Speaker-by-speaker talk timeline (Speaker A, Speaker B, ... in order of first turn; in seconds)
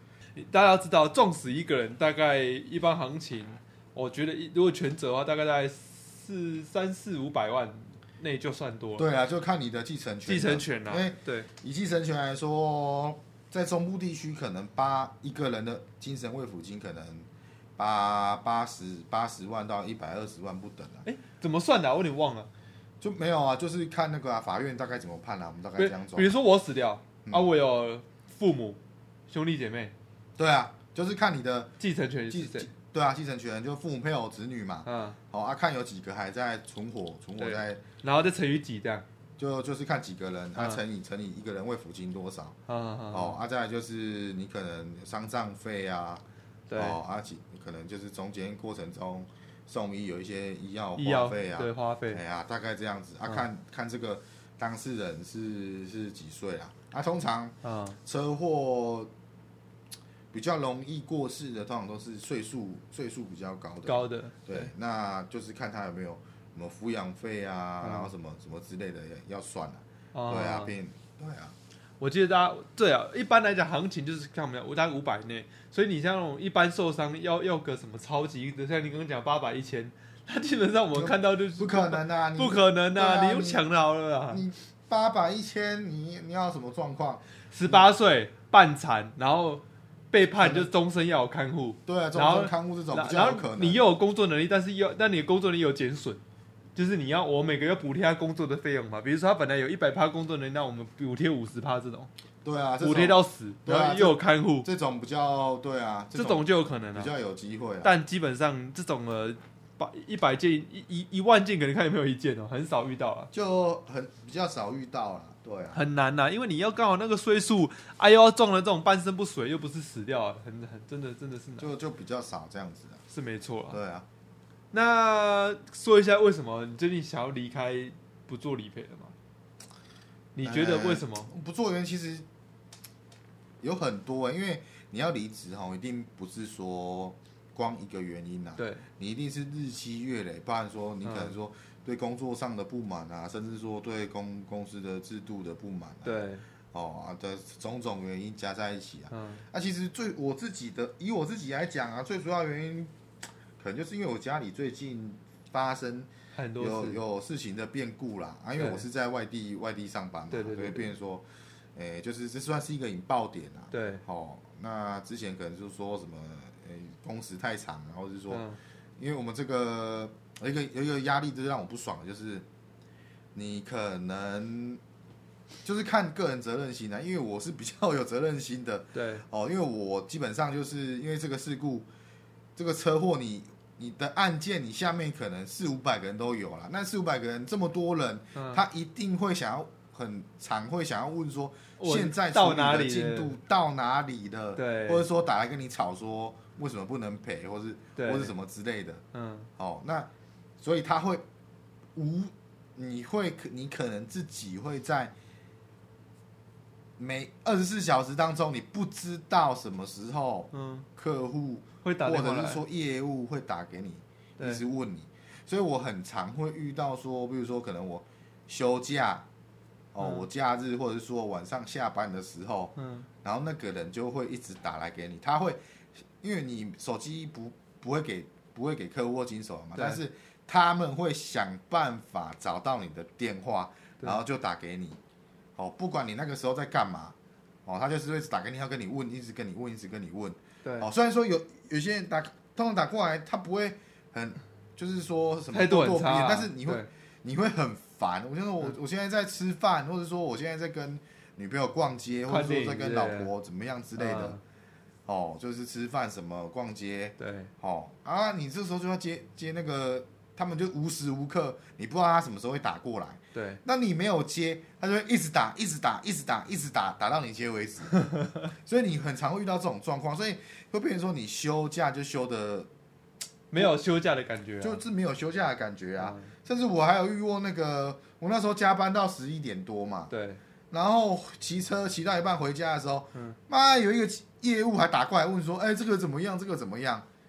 Speaker A: 0.3-9.1, 10.2-11.5, 21.0-22.5, 25.8-28.8, 29.3-29.9, 31.8-32.7, 34.8-35.2, 37.4-39.0, 42.7-43.4, 46.7-47.0, 51.0-52.2, 57.6-58.0, 63.8-64.7, 67.8-68.1, 70.1-70.7, 72.0-84.4, 87.5-96.2, 96.8-102.1, 102.8-104.7, 106.1-107.1, 107.8-113.3, 115.7-121.7, 123.1-123.8, 124.7-129.1, 130.3-131.3, 138.6-138.8, 141.0-141.3, 146.0-146.4, 149.1-149.4, 156.3-157.0, 158.6-158.8, 160.3-160.9, 163.7-164.0, 168.3-168.6, 178.9-179.2, 188.3-188.6, 191.8-193.3, 194.6-195.1, 197.9-198.3, 199.1-199.5, 210.5-210.8, 211.8-212.6, 220.0-220.2, 222.8-223.1, 245.5-246.9, 252.3-253.3, 254.0-254.4, 257.2-257.5, 263.3-263.6, 268.1-268.4, 273.5-274.8, 276.0-276.3, 280.1-280.4
Speaker B: 9.0-21.1, 23.0-26.3, 27.2-27.5, 30.4-31.7, 32.3-37.8, 39.4-42.5, 43.1-46.2, 46.7-59.1, 60.3-71.5, 80.9-83.6, 84.3-87.8, 90.4-90.7, 91.8-93.8, 102.4-107.9, 113.3-115.8, 121.6-123.0, 123.7-124.0, 130.4-132.2, 133.6-152.9, 153.6-168.4, 169.0-172.4, 173.3-174.8, 175.6-181.9, 182.6-199.0, 199.6-200.1, 200.6-201.2, 201.9-205.1, 207.0-219.2, 219.9-225.6, 226.2-235.0, 235.6-254.4, 255.1-272.7, 274.6-280.1, 280.7-287.1